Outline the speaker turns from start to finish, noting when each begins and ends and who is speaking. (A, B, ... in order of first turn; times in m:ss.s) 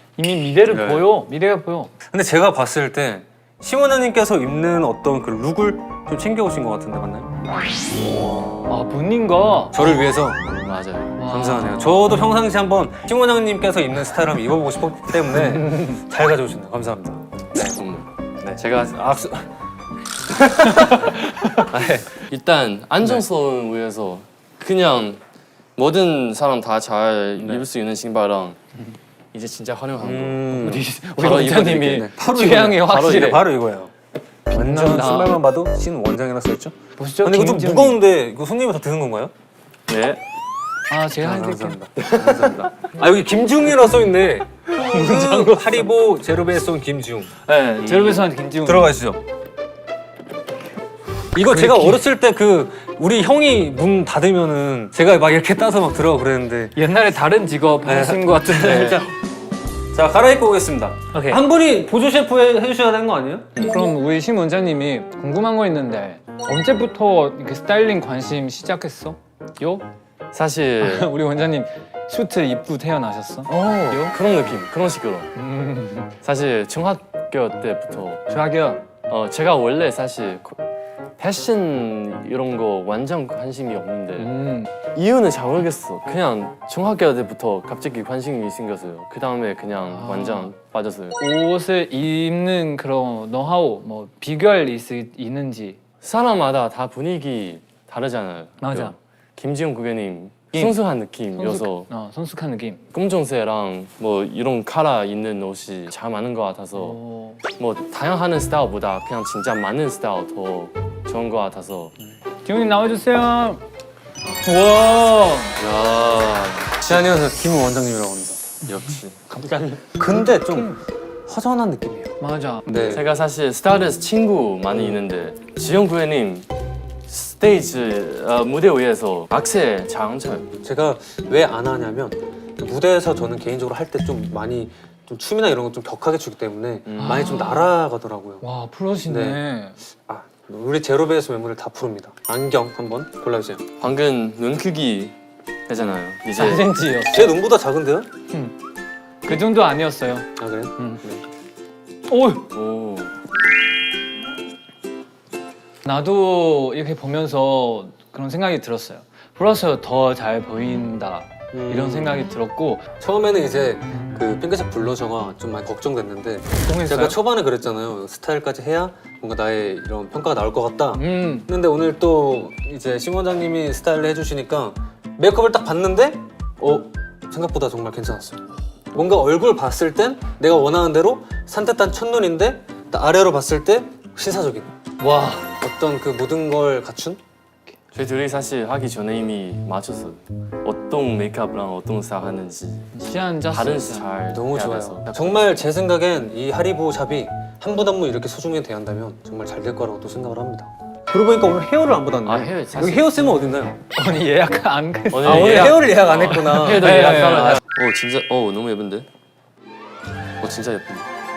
0:00.2-0:01.9 A
0:00.7-0:01.1 B
0:02.0-0:07.4 B
0:08.7-0:09.7 A
0:09.7-0:10.4 B
0:10.5-0:11.8 C
0:11.2-0:12.0 A
0:11.3-0:17.8 B
0:15.4-0:16.0 A
0:17.6-0:19.0 C
0:18.8-0:19.5 B
0:20.3-0:22.2 B
0:20.8-0:21.6 A
0:22.1-0:25.2 C
0:25.8-0:28.6 C
0:27.4-0:27.6 B
0:29.3-0:32.1 C
0:30.0-0:30.8 B
0:30.6-0:33.4 A
0:31.9-0:33.9 B
0:32.8-0:33.4 C
0:34.5-0:35.4 A
0:34.5-0:39.3 B
0:37.0-0:38.0 A
0:39.9-0:40.2 C
0:40.9-0:41.8 A
0:41.2-0:47.3 B
0:44.8-0:45.8 A
0:47.4-0:48.9 A
0:47.8-0:48.3 C
0:48.6-0:49.2 B
0:51.3-0:56.8 B
0:51.4-0:52.0 A
0:56.8-0:59.0 A
0:57.8-0:59.1 B
0:59.9-1:03.5 B
1:01.1-1:01.4 A
1:03.6-1:03.8 C
1:03.6-1:09.8 A
1:10.3-1:11.1 C
1:10.8-1:14.2 A
1:13.9-1:15.3 C
1:15.3-1:16.1 A
1:16.2-1:18.2 C
1:18.3-1:18.8 A
1:19.1-1:20.6 C
1:21.2-1:31.2 C
1:24.2-1:24.7 A
1:29.9-1:30.5 A
1:31.2-1:35.8 A
1:36.0-1:41.9 C
1:38.6-1:39.0 A
1:40.5-1:40.8 A
1:41.3-1:42.8 A
1:42.9-1:47.0 C
1:46.7-1:47.4 A
1:47.5-1:51.9 C
1:52.4-1:53.6 A
1:54.4-1:55.6 A
1:55.6-1:57.1 C
1:56.8-1:58.5 B
1:58.6-1:59.6 C
1:59.5-2:03.0 B
2:02.2-2:02.6 A
2:02.8-2:06.5 C
2:07.1-2:10.5 C
2:10.6-2:18.4 B
2:16.8-2:17.4 C
2:17.0-2:17.7 A
2:18.4-2:19.8 A
2:19.1-2:19.4 B
2:20.0-2:23.6 B
2:23.8-2:25.2 C
2:25.7-2:26.7 C
2:26.3-2:27.4 A
2:27.1-2:28.1 B
2:29.2-2:31.0 A
2:30.4-2:31.2 B
2:32.1-2:32.5 A
2:32.5-2:33.1 C
2:35.8-2:42.9 A
2:41.5-2:42.3 B
2:43.0-3:04.7 B
2:46.7-2:47.2 A
2:50.9-2:51.5 A
3:05.0-3:05.5 A
3:05.6-3:07.2 B
3:07.9-3:15.4 C
3:12.9-3:14.0 A
3:14.3-3:23.8 B
3:22.2-3:23.2 C
3:23.9-3:25.9 A
3:25.1-3:29.1 C
3:25.2-3:27.6 B
3:26.6-3:27.6 A
3:30.4-3:31.1 C